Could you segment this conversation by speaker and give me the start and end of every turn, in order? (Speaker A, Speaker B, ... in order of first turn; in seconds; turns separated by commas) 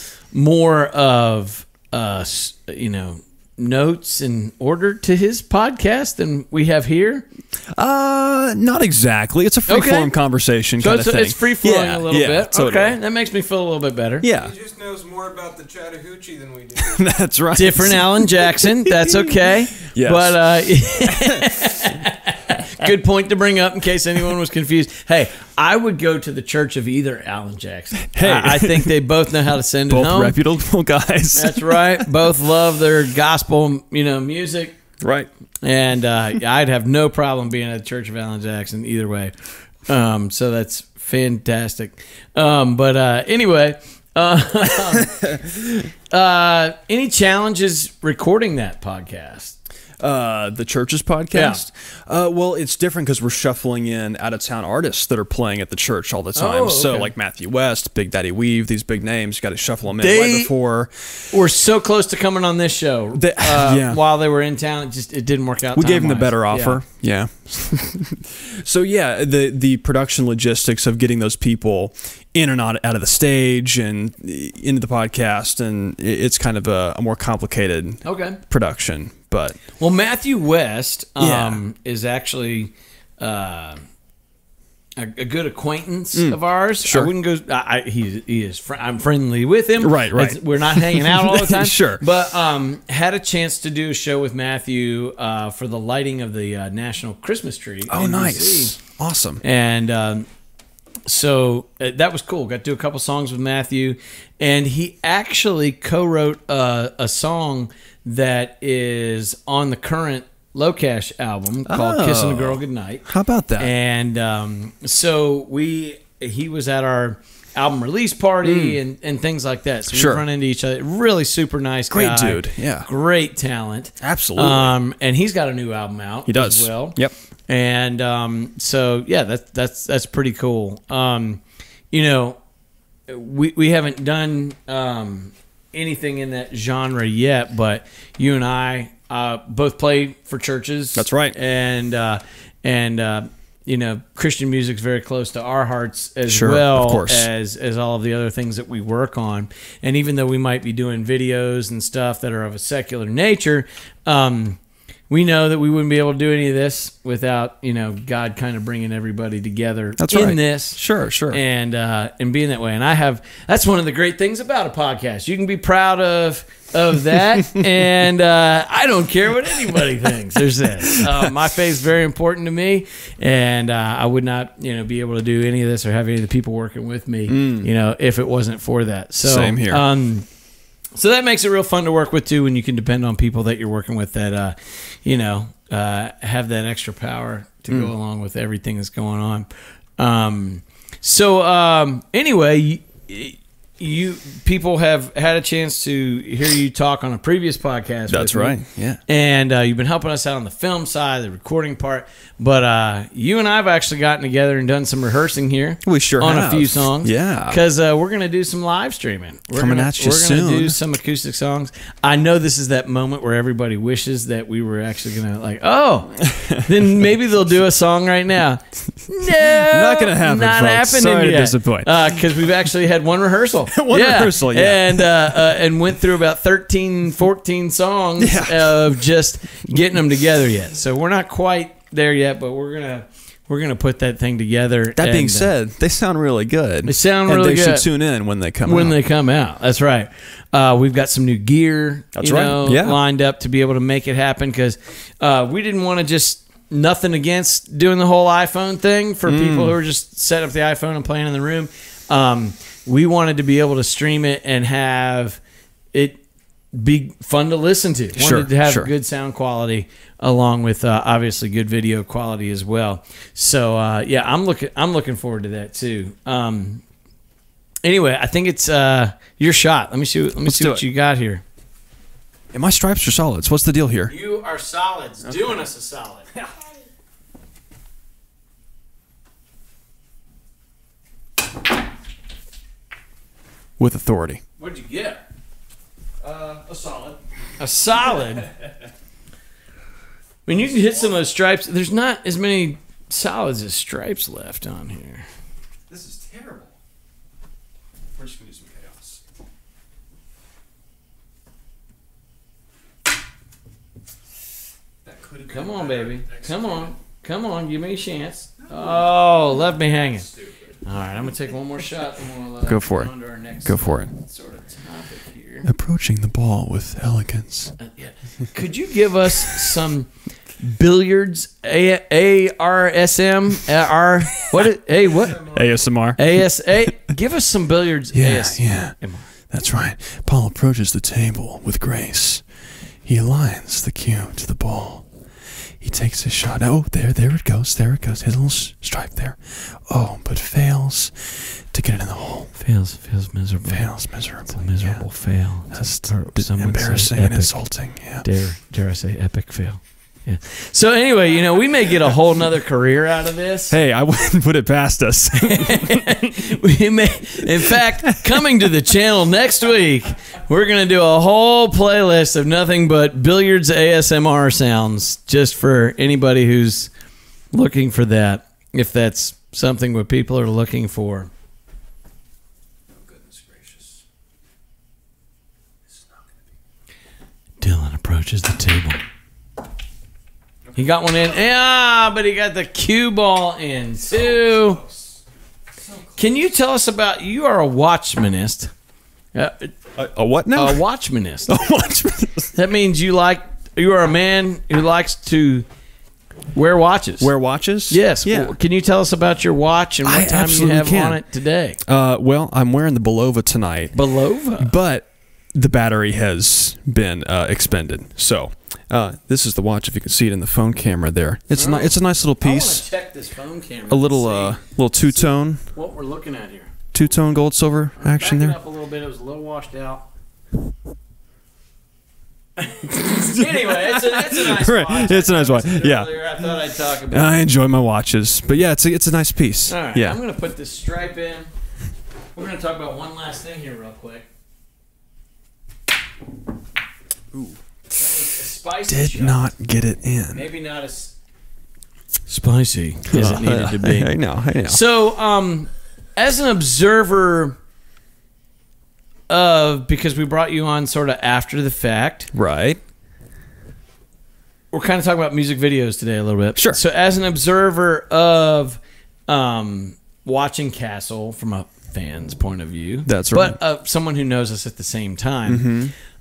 Speaker A: 0.3-7.3, Speaker B: 7.8-13.0, Speaker A: 9.7-10.1, Speaker A: 10.8-14.3, Speaker B: 14.2-14.5, Speaker C: 14.3-17.1, Speaker B: 16.8-19.3, Speaker A: 17.5-30.4, Speaker B: 19.9-20.4, Speaker B: 28.1-28.9, Speaker B: 29.9-31.9, Speaker A: 31.4-34.8, Speaker B: 35.0-35.3, Speaker A: 35.6-39.3, Speaker A: 39.9-45.4, Speaker A: 46.1-49.6, Speaker B: 50.0-61.2, Speaker A: 51.3-51.6, Speaker A: 56.4-57.1, Speaker A: 60.0-60.5, Speaker A: 61.3-66.8, Speaker B: 63.2-64.0, Speaker B: 65.7-79.6, Speaker A: 78.0-78.4, Speaker A: 79.8-83.8, Speaker B: 81.2-81.6, Speaker A: 85.0-98.8, Speaker B: 86.2-87.1, Speaker B: 89.8-92.0, Speaker B: 97.9-99.4, Speaker A: 99.4-100.3, Speaker A: 101.1-113.0, Speaker B: 111.7-113.7, Speaker A: 113.6-131.4, Speaker B: 118.4-118.8, Speaker B: 119.9-120.2, Speaker B: 121.9-122.9, Speaker B: 124.0-124.7, Speaker B: 126.3-127.1, Speaker A: 131.9-132.4, Speaker A: 133.1-180.2, Speaker B: 141.0-141.3, Speaker B: 146.3-147.3, Speaker B: 160.0-161.4, Speaker B: 177.3-177.7, Speaker B: 179.2-179.8, Speaker A: 180.9-235.5, Speaker B: 198.1-199.0, Speaker B: 205.8-207.6, Speaker B: 209.6-210.8, Speaker B: 216.2-216.6, Speaker B: 219.3-222.2, Speaker B: 223.7-225.4, Speaker B: 228.2-229.0, Speaker B: 235.0-239.0, Speaker A: 236.8-237.9, Speaker A: 238.6-255.4, Speaker B: 242.2-243.0, Speaker B: 249.3-249.8, Speaker A: 255.9-256.2, Speaker A: 256.7-266.8, Speaker B: 258.2-258.9, Speaker A: 267.8-271.4, Speaker B: 270.4-270.8, Speaker B: 272.5-274.1, Speaker A: 274.1-276.3, Speaker B: 283.8-284.4, Speaker A: 284.6-285.2, Speaker B: 286.2-287.2, Speaker A: 287.6-288.5, Speaker A: 290.5-295.3, Speaker B: 295.9-296.8, Speaker B: 298.1-299.2, Speaker B: 305.1-306.8, Speaker A: 305.5-315.7, Speaker B: 312.6-314.1, Speaker B: 315.7-317.8, Speaker A: 317.8-325.5, Speaker B: 325.4-326.9, Speaker A: 326.1-329.3, Speaker B: 328.1-332.5, Speaker B: 333.0-335.1, Speaker B: 335.8-342.6, Speaker A: 342.6-353.8, Speaker B: 343.7-348.3, Speaker B: 353.7-356.6, Speaker A: 355.4-366.9, Speaker A: 367.5-371.3, Speaker B: 373.0-373.9, Speaker A: 377.6-379.0, Speaker A: 380.8-384.8, Speaker A: 386.2-388.7, Speaker A: 389.3-389.8, Speaker B: 390.0-390.8, Speaker A: 390.5-391.5, Speaker B: 391.5-392.6, Speaker A: 392.6-395.7, Speaker A: 396.5-397.3, Speaker B: 397.2-398.6, Speaker A: 397.9-401.8, Speaker B: 400.1-401.2, Speaker B: 401.8-404.0, Speaker A: 403.9-404.7, Speaker B: 404.6-412.9, Speaker A: 411.5-416.7, Speaker B: 413.9-415.6, Speaker B: 416.9-418.6, Speaker A: 418.0-420.0, Speaker A: 422.6-427.5, Speaker B: 423.1-426.6, Speaker B: 427.1-430.2, Speaker A: 429.7-431.5, Speaker A: 432.4-434.3, Speaker B: 437.3-437.6, Speaker A: 437.9-439.4, Speaker B: 438.9-440.4, Speaker A: 440.3-441.1, Speaker A: 442.3-447.6, Speaker B: 443.1-444.8, Speaker A: 449.3-452.3, Speaker B: 452.3-452.8, Speaker A: 454.7-465.8, Speaker B: 463.1-463.6, Speaker B: 465.5-465.9